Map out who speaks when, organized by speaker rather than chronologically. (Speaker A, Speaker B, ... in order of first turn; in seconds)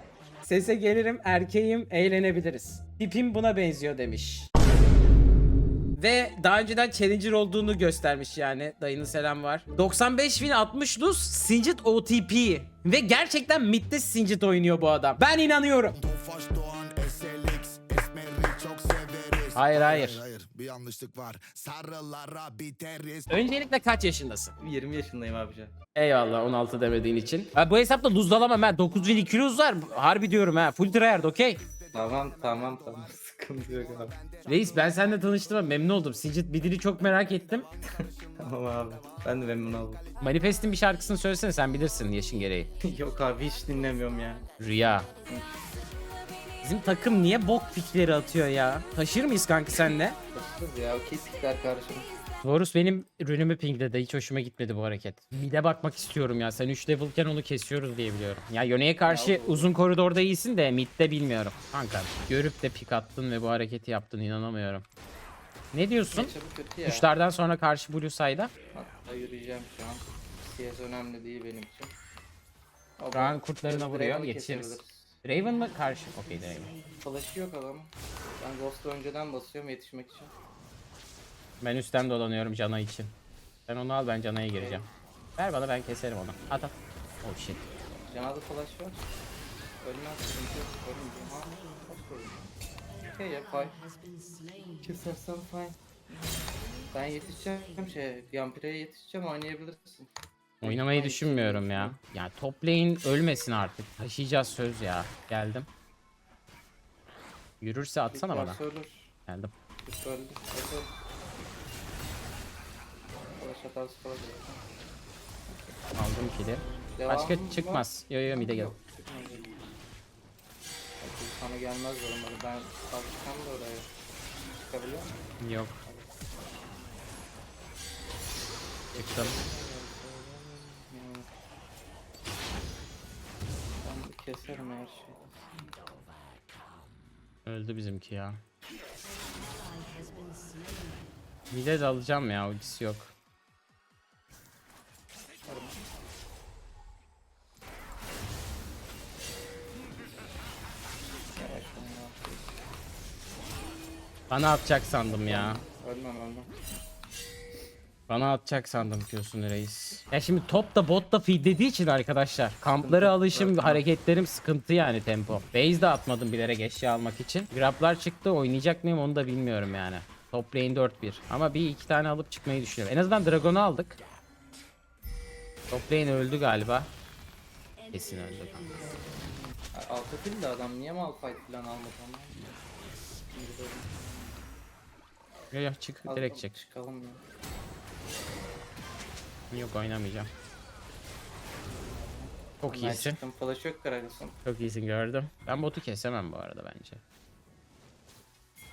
Speaker A: 0.5-4.5, 6.0-16.0, 19.6-20.3, 23.3-24.5, 25.9-31.6, 34.5-37.7, 40.2-42.7, 44.6-45.1, 46.6-50.2, 52.4-64.8, 65.7-66.3, 66.9-68.5, 73.1-76.8, 81.6-83.2, 83.7-84.9, 85.4-87.7, 100.6-105.7, 107.6-108.6, 109.3-109.5, 116.0-118.7, 125.4-125.8, 128.9-129.4, 137.4-138.4, 141.5-143.1, 154.3-155.6, 158.1-174.0, 175.7-176.9, 177.9-178.9, 185.5-186.7, 189.5-190.3, 192.6-193.2, 194.4-197.0
Speaker B: 16.0-23.4, 31.8-33.0, 33.8-34.9
Speaker C: 24.6-25.7, 31.9-34.2, 38.0-40.0, 42.8-44.5, 50.3-52.1, 59.1-59.8, 66.1-67.1, 68.7-71.9, 73.0-75.2, 77.0-80.3, 84.5-84.9, 88.0-89.1, 89.8-92.5, 93.0-93.8, 94.8-100.1, 100.6-102.0, 108.1-109.1, 109.8-110.9, 113.4-114.7, 115.5-115.8, 117.0-119.5, 121.0-123.9, 124.5-125.3, 125.8-126.1, 128.9-131.3, 133.8-135.6, 145.5-145.8, 151.4-152.5, 155.1-156.5, 162.8-163.8, 178.8-182.5, 183.3-184.4, 186.1-187.2, 191.7-194.4